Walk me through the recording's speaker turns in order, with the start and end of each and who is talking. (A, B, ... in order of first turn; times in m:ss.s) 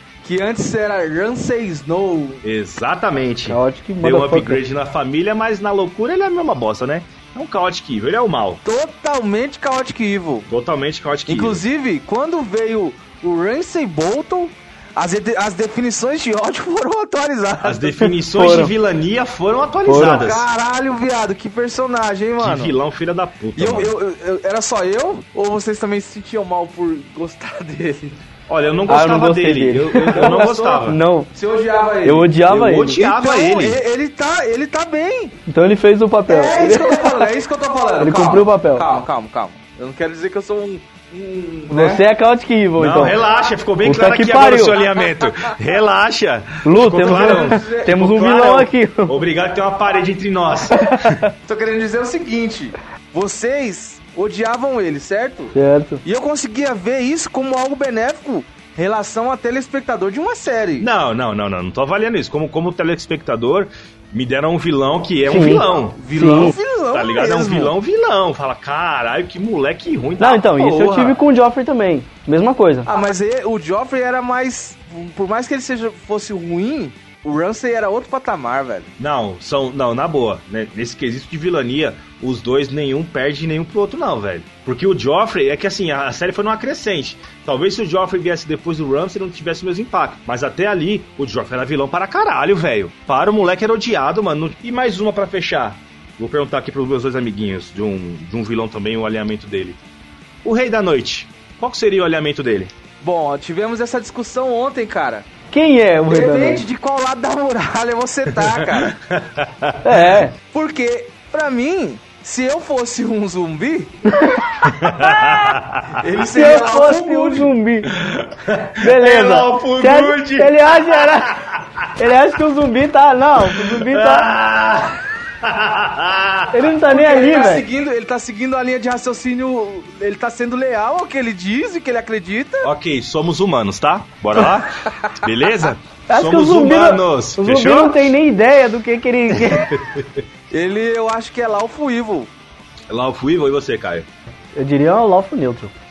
0:00.2-0:02.4 A
0:02.4-0:08.6 B
0:03.5-0:04.6 C
0:08.6-0:10.5 A
0:10.5-0:11.6 B
0:11.3-0:17.8 A
0:17.6-0:20.5 B
0:17.9-0:18.7 C
0:19.8-0:20.2 C
0:19.9-0:22.7 A
0:22.4-0:23.9 B
0:23.6-0:28.2 A
0:28.5-0:31.0 B
0:28.9-0:31.3 C
0:30.1-0:32.3 A
0:32.0-0:33.1 C
0:32.4-0:33.8 B
0:33.0-0:35.4 A
0:35.5-0:37.3 C
0:36.2-0:42.0 A
0:38.0-0:38.9 C
0:41.7-0:43.2 C
0:42.8-0:51.2 B
0:43.8-0:44.8 C
0:46.6-0:49.2 C
0:47.0-0:48.3 A
0:50.7-0:51.2 C
0:51.4-1:00.9 A
0:55.5-0:56.0 C
1:00.8-1:06.0 B
1:05.2-1:06.5 C
1:05.9-1:07.7 A
1:06.9-1:11.2 B
1:10.2-1:12.9 C
1:12.8-1:18.9 A
1:19.0-1:39.8 B
1:40.4-1:42.7 B
1:43.0-1:45.2 A
1:45.5-1:46.6 C
1:46.1-1:48.9 A
1:48.7-1:50.0 B
1:49.8-1:50.3 C
1:50.5-1:54.0 A
1:54.1-1:55.0 C
1:54.6-1:56.0 B
1:55.9-1:57.5 A
1:56.2-1:57.9 C
1:57.9-2:01.9 B
1:58.7-2:01.4 C
2:02.0-2:04.3 C
2:03.4-2:06.7 B
2:06.5-2:07.6 C
2:06.9-2:12.7 A
2:12.6-2:18.1 B
2:16.1-2:19.8 C
2:19.4-2:20.1 B
2:20.5-2:22.3 A
2:22.9-2:24.1 B
2:24.5-2:25.7 C